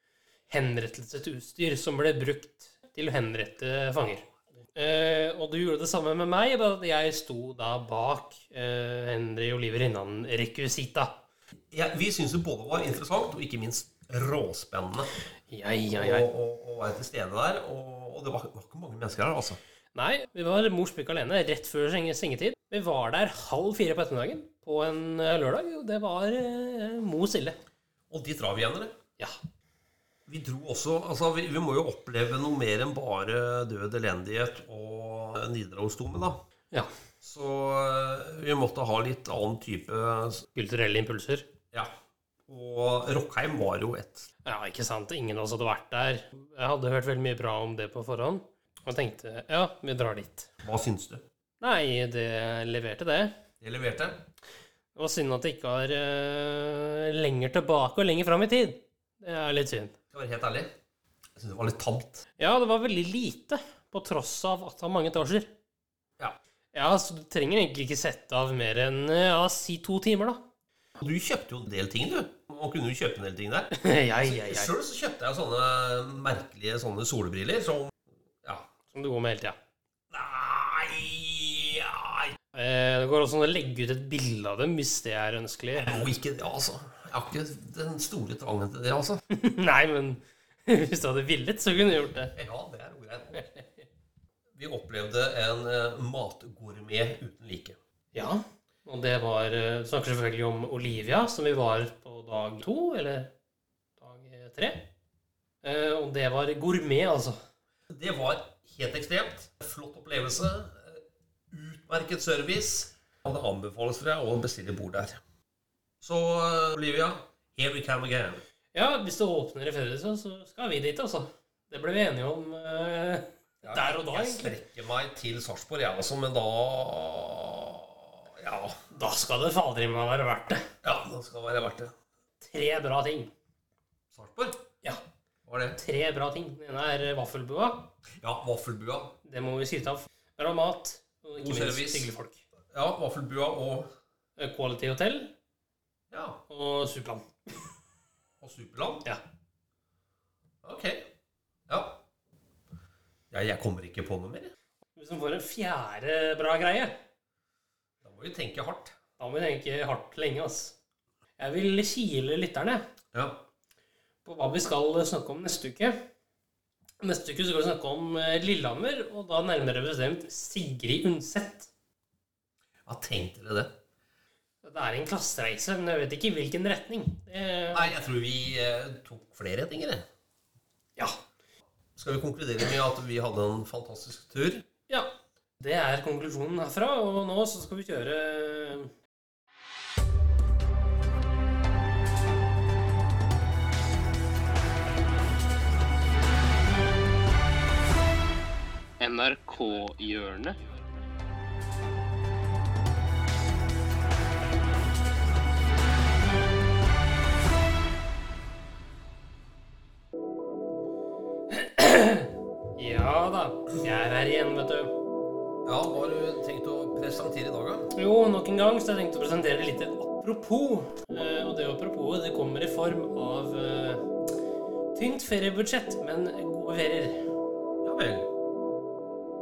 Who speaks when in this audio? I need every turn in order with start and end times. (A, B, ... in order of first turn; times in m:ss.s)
0:00.5-0:04.2 A
0:04.8-0:11.2 A
0:11.7-0:15.1 B
0:15.5-0:16.3 A
0:15.9-0:19.6 B
0:19.9-0:27.6 A
0:28.1-0:28.9 B
0:30.3-0:36.4 B
0:37.2-0:40.4 B
0:40.5-0:41.5 A
0:42.5-0:44.3 B
0:44.4-0:50.5 A
0:50.6-0:51.2 B
0:51.6-0:53.3 A
0:53.6-0:54.2 B
0:54.9-0:59.9 A
1:00.1-1:00.7 B
1:01.4-1:02.2 B
1:02.4-1:05.5 A
1:06.7-1:10.4 A
1:11.0-1:17.9 B
1:13.7-1:14.7 A
1:18.9-1:19.6 A
1:20.1-1:22.3 B
1:22.5-1:26.0 A
1:25.8-1:29.2 B
1:29.3-1:32.3 A
1:32.4-1:33.5 B
1:34.6-1:37.8 B
1:38.1-1:43.3 A
1:44.0-1:44.9 A
1:45.6-1:47.4 A
1:47.9-1:51.0 B
1:51.5-1:55.2 B
1:56.0-1:58.4 B
1:58.7-2:04.5 A
2:03.6-2:08.8 B
2:08.9-2:10.6 A
2:10.8-2:11.9 B
2:12.4-2:13.3 A
2:14.1-2:14.6 B
2:15.4-2:15.8 B
2:15.8-2:17.9 A
2:18.2-2:19.1 B
2:19.2-2:22.4 A
2:21.4-2:22.1 B
2:22.7-2:23.9 B
2:24.4-2:25.3 A
2:26.1-2:26.4 B
2:26.5-2:27.2 A
2:28.4-2:29.0 B
2:30.6-2:31.0 B
2:31.7-2:32.0 B
2:33.3-2:34.5 B
2:35.0-2:36.9 A
2:38.0-2:38.9 B
2:39.2-2:40.7 A
2:41.4-2:42.8 A
2:43.1-2:43.4 B
2:44.2-2:45.9 A
2:47.0-2:51.7 A
2:52.9-2:53.7 B
2:54.6-2:57.9 A
2:57.7-3:00.0 B
3:02.0-3:04.6 B
3:04.9-3:08.9 A
3:19.0-3:20.6 A
3:31.5-3:35.0 A
3:35.6-3:37.9 B
3:37.9-3:44.0 A
3:44.9-3:47.2 A
3:47.8-3:48.3 B